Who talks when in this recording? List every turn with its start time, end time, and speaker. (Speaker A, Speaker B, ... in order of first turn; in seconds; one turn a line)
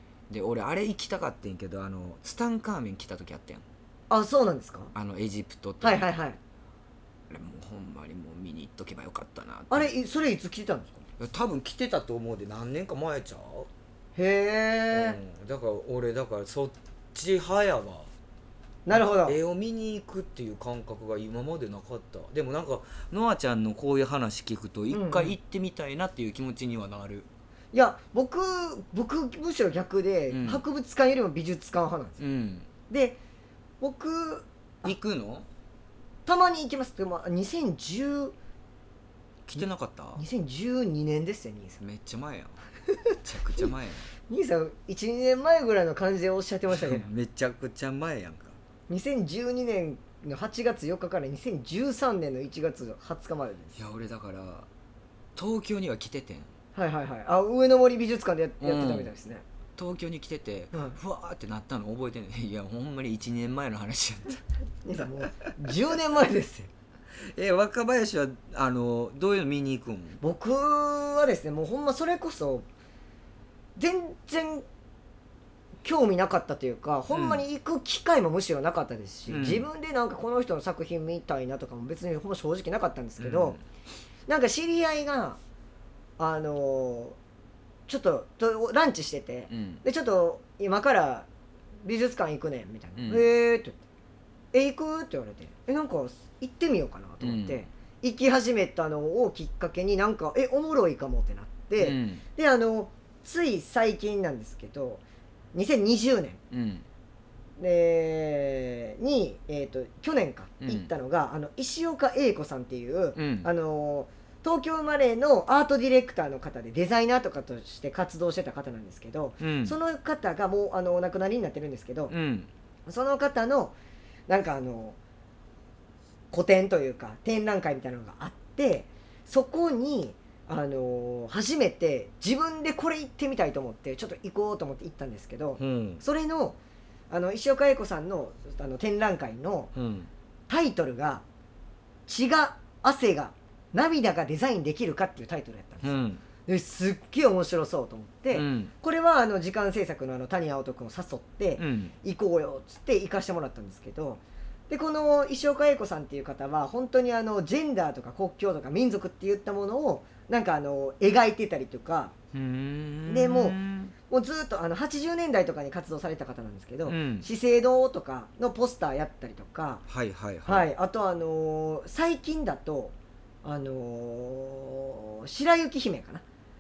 Speaker A: 0.3-3.6
Speaker B: 4.1-4.9
Speaker A: 4.9-6.1
Speaker B: 5.8-6.4
Speaker A: 7.3-9.9
Speaker B: 9.7-11.0
Speaker A: 11.2-13.7
Speaker B: 14.2-15.2
Speaker A: 14.9-18.1
Speaker B: 18.9-19.4
Speaker A: 18.9-27.3
Speaker B: 24.9-25.4
Speaker B: 27.7-32.2
Speaker A: 30.3-30.6
Speaker A: 32.2-32.7
Speaker B: 32.9-33.2
Speaker B: 33.8-35.0
Speaker A: 34.8-35.5
Speaker B: 36.3-38.3
Speaker A: 39.5-40.2
Speaker B: 39.5-41.8
Speaker A: 41.8-42.6
Speaker A: 43.2-44.1
Speaker B: 44.3-47.0
Speaker A: 46.7-48.6
Speaker B: 48.9-53.8
Speaker A: 53.8-54.7
Speaker A: 55.4-56.5
Speaker B: 56.8-59.4
Speaker A: 58.6-59.1
Speaker A: 59.8-64.4
Speaker B: 60.7-61.0
Speaker B: 64.8-66.7
Speaker A: 67.3-70.2
Speaker B: 70.2-72.7
Speaker B: 73.8-74.6
Speaker B: 75.8-83.6
Speaker A: 77.1-77.4
Speaker A: 79.3-79.7
Speaker A: 83.2-83.6
Speaker B: 84.3-85.4
Speaker B: 86.2-87.2
Speaker B: 87.9-91.3
Speaker A: 89.5-89.8
Speaker B: 91.8-93.8
Speaker A: 93.0-93.3
Speaker B: 94.5-105.0
Speaker A: 97.2-97.6
Speaker A: 101.8-102.2
Speaker B: 105.5-106.4
Speaker A: 106.5-106.9
Speaker B: 107.6-122.1
Speaker A: 110.6-110.9
Speaker A: 113.2-113.5
Speaker A: 119.4-119.8
Speaker A: 122.1-122.5
Speaker B: 122.9-123.8
Speaker B: 124.3-125.0
Speaker B: 126.3-136.6
Speaker A: 135.6-136.0
Speaker B: 137.1-139.7
Speaker A: 139.8-140.1
Speaker B: 140.5-141.2
Speaker B: 142.1-162.1
Speaker A: 145.8-146.2
Speaker A: 148.3-148.7
Speaker A: 151.6-151.9
Speaker A: 162.3-163.9
Speaker B: 163.1-163.6
Speaker B: 164.1-169.8
Speaker A: 166.8-167.3
Speaker A: 169.9-170.7
Speaker B: 170.5-176.2